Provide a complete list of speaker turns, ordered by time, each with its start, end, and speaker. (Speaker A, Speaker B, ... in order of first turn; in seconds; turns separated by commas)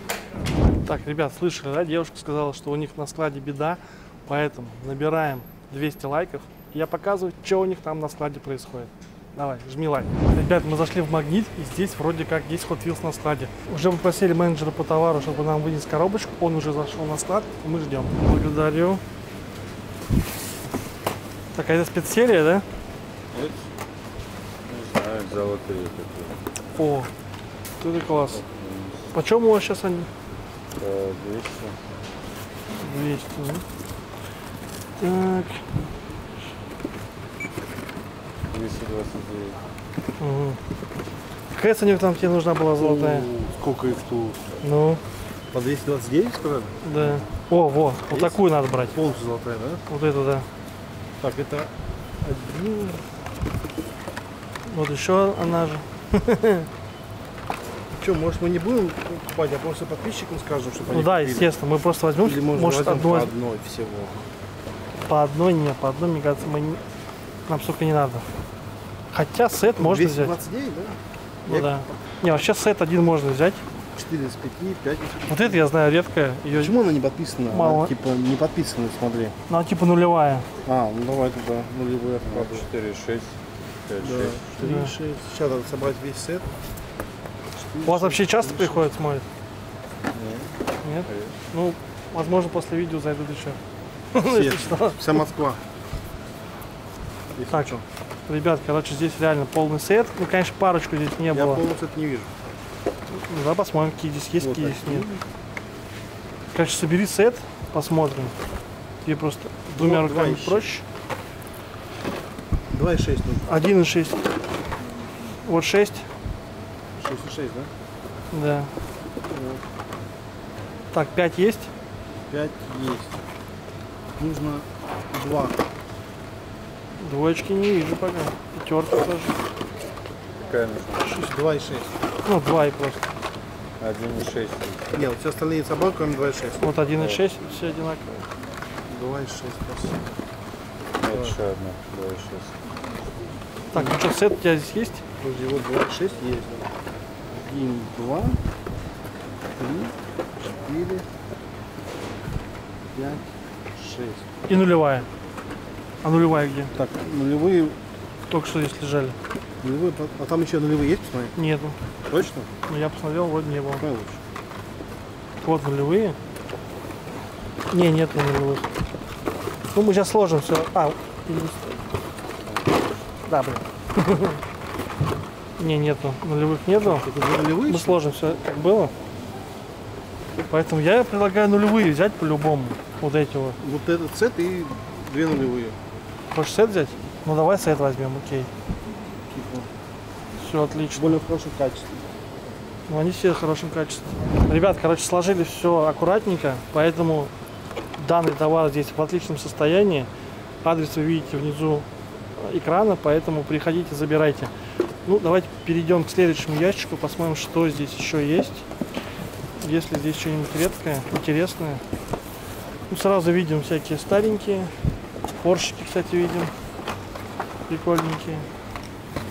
Speaker A: 0.8-19.0, Speaker A: 21.5-22.6, Speaker B: 23.3-23.7, Speaker B: 24.7-26.4, Speaker A: 26.8-27.1, Speaker A: 27.8-28.4, Speaker B: 28.3-29.1, Speaker A: 29.1-30.1, Speaker B: 30.8-31.8, Speaker A: 32.8-33.6, Speaker A: 35.0-35.7, Speaker B: 38.5-39.6, Speaker A: 40.2-40.6, Speaker A: 41.5-43.3, Speaker C: 42.8-44.5, Speaker A: 44.6-45.0, Speaker C: 45.5-47.2, Speaker A: 46.8-49.0, Speaker C: 48.1-48.4, Speaker C: 48.9-49.8, Speaker A: 49.9-50.5, Speaker C: 51.2-51.7, Speaker C: 52.2-53.0, Speaker A: 54.7-56.7, Speaker C: 58.0-61.5, Speaker A: 60.9-63.3, Speaker C: 62.2-64.2, Speaker A: 65.0-66.8, Speaker A: 67.5-68.2, Speaker A: 69.1-70.3, Speaker C: 69.8-71.9, Speaker A: 71.5-73.6, Speaker C: 74.0-75.6, Speaker A: 75.3-76.7, Speaker C: 76.5-79.3, Speaker A: 77.5-77.9, Speaker A: 79.5-80.5, Speaker C: 80.6-82.6, Speaker B: 82.2-84.4, Speaker C: 84.0-86.5, Speaker A: 84.6-84.9, Speaker C: 87.6-88.8, Speaker A: 87.8-89.2, Speaker B: 90.2-90.4, Speaker A: 90.8-93.6, Speaker B: 91.1-91.3, Speaker A: 94.1-95.3, Speaker C: 94.2-95.6, Speaker C: 97.3-97.8, Speaker A: 97.5-101.6, Speaker C: 101.3-102.3, Speaker A: 103.1-105.1, Speaker C: 104.4-105.2, Speaker A: 106.5-108.3, Speaker A: 109.0-110.8, Speaker C: 109.8-110.6, Speaker C: 112.7-113.6, Speaker A: 113.5-114.2, Speaker A: 115.4-116.1, Speaker C: 117.0-117.7, Speaker A: 118.3-118.7, Speaker C: 119.2-119.6, Speaker A: 120.9-121.7, Speaker C: 122.3-123.2, Speaker C: 124.2-125.6, Speaker A: 127.0-129.4, Speaker B: 130.4-131.2, Speaker C: 131.1-131.9, Speaker A: 132.2-133.1, Speaker B: 133.8-134.9, Speaker C: 134.9-136.6, Speaker A: 136.6-138.3, Speaker C: 138.9-140.0, Speaker B: 141.0-142.6, Speaker C: 141.1-141.4, Speaker A: 143.7-145.0, Speaker C: 145.2-146.7, Speaker C: 147.3-148.4, Speaker C: 149.6-151.1, Speaker C: 152.9-154.2, Speaker A: 154.5-155.1, Speaker A: 156.0-156.7, Speaker C: 156.7-157.8, Speaker A: 158.3-159.2, Speaker C: 159.6-161.3, Speaker A: 161.3-161.8, Speaker C: 162.1-162.5, Speaker A: 162.7-163.8, Speaker C: 163.8-164.2, Speaker A: 165.4-166.2, Speaker A: 167.7-168.7, Speaker A: 169.7-171.8, Speaker A: 173.2-174.4, Speaker A: 175.6-177.1, Speaker C: 176.8-178.0, Speaker A: 177.7-178.9, Speaker A: 180.4-183.6, Speaker C: 183.6-185.8, Speaker A: 186.3-188.5, Speaker C: 189.3-189.7, Speaker A: 190.4-191.2, Speaker C: 190.9-192.1, Speaker A: 192.9-197.3, Speaker A: 198.0-200.1, Speaker A: 200.6-204.5, Speaker A: 205.1-208.7, Speaker A: 209.6-211.8, Speaker A: 212.9-214.7, Speaker A: 215.4-216.5, Speaker A: 217.7-218.5